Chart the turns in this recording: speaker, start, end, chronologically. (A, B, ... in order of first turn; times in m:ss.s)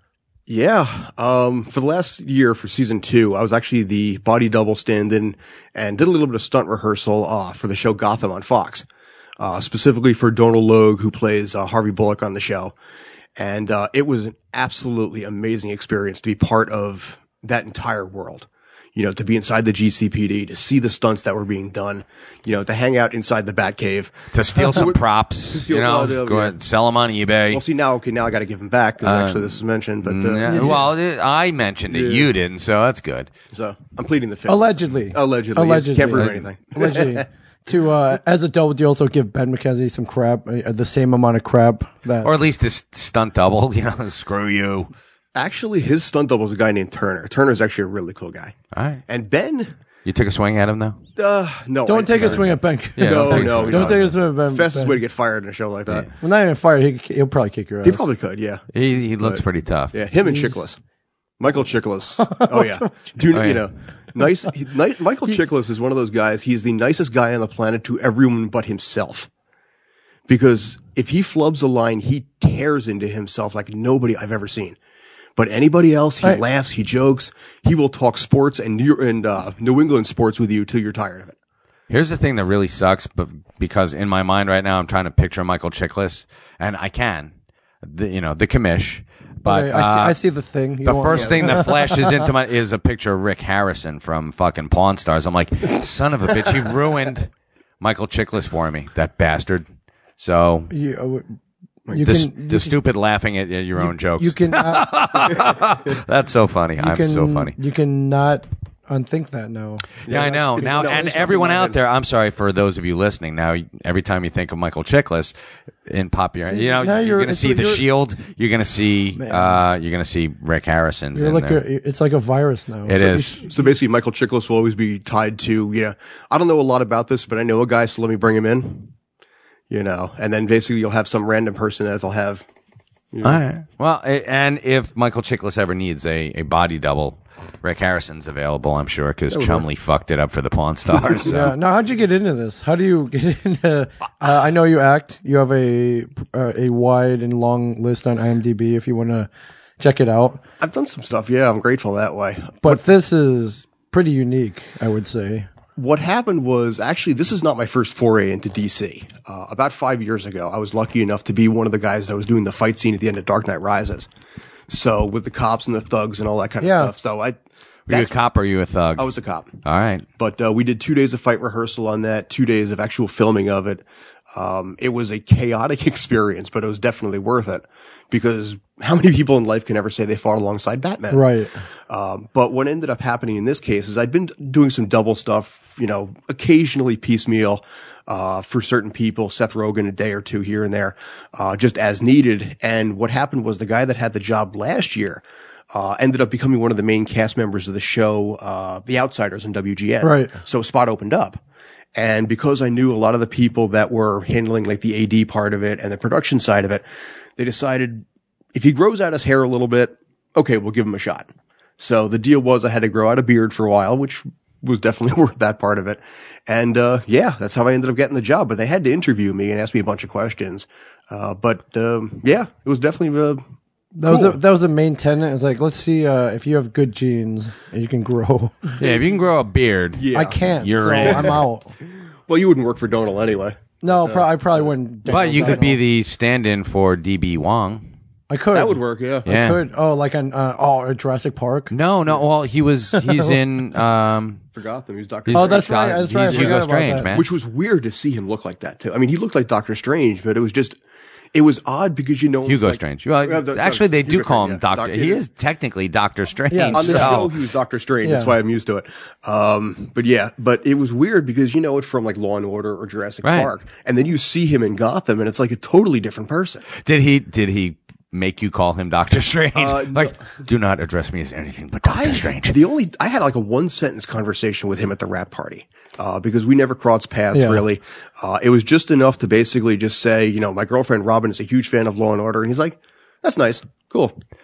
0:00.5-0:08.9 A
0:09.4-0:12.7 A
0:13.4-0:26.6 A
0:24.3-0:27.6 B
0:27.5-0:30.9 A
0:29.0-0:33.3 B
0:30.5-0:30.8 C
0:31.9-0:32.3 A
0:33.5-0:37.2 A
0:34.5-0:42.3 C
0:36.2-0:36.4 B
0:42.2-0:44.9 B
0:45.4-0:48.6 A
0:48.7-0:49.0 B
0:49.1-0:49.7 A
0:50.0-0:51.0 B
0:51.2-0:56.1 A
0:51.8-0:55.0 C
0:52.2-0:52.4 B
0:53.0-0:54.1 B
0:56.2-0:58.0 C
0:57.8-1:00.8 A
0:58.7-1:00.0 B
1:00.2-1:00.6 C
1:01.4-1:09.3 A
1:02.2-1:03.2 C
1:03.3-1:03.6 B
1:10.3-1:14.8 A
1:15.4-1:21.4 A
1:21.9-1:30.2 B
1:29.4-1:32.2 C
1:30.8-1:39.6 B
1:31.1-1:31.6 A
1:40.2-1:40.7 B
1:40.7-1:41.4 C
1:41.9-1:42.8 C
1:42.0-1:47.6 B
1:43.8-1:45.3 C
1:46.8-1:49.9 C
1:50.0-1:55.3 B
1:50.1-1:51.8 A
1:55.8-2:01.6 B
1:56.5-1:57.8 C
1:59.2-1:59.6 C
2:01.1-2:03.5 C
2:02.9-2:03.4 B
2:03.4-2:08.9 A
2:09.7-2:12.4 A
2:13.1-2:13.4 A
2:13.2-2:21.5 B
2:19.3-2:19.6 A
2:21.3-2:30.4 C
2:30.6-2:32.8 A
2:32.6-2:35.5 C
2:35.8-2:44.1 A
2:44.7-2:47.4 A
2:46.6-2:46.9 C
2:47.9-2:48.1 A
2:47.9-2:49.1 B
2:49.0-2:49.5 A
2:49.6-2:50.0 B
2:50.2-3:01.3 A
3:01.1-3:01.6 C
3:01.9-3:21.4 A
3:20.0-3:20.4 C
3:22.0-3:26.8 A
3:27.4-3:43.4 A
3:44.0-3:48.8 C
3:44.0-3:44.4 A
3:48.8-3:51.4 B
3:48.8-3:49.1 A
3:50.0-3:50.4 A
3:50.1-3:51.7 C
3:50.9-3:51.4 A
3:52.3-3:55.7 A
3:53.8-3:55.8 C
3:55.1-3:57.9 B
3:58.3-4:01.7 C
3:58.5-3:59.3 A
3:59.3-3:59.6 B
4:01.7-4:04.4 B
4:02.9-4:03.4 C
4:04.6-4:10.8 A
4:05.3-4:07.3 B
4:05.3-4:07.1 C
4:11.3-4:15.2 A
4:12.4-4:17.4 B
4:16.5-4:17.2 C
4:16.7-4:26.7 A
4:18.0-4:18.4 C
4:23.2-4:23.5 B
4:26.7-4:32.6 B
4:29.6-4:30.2 A
4:31.8-4:44.1 A
4:37.3-4:37.6 C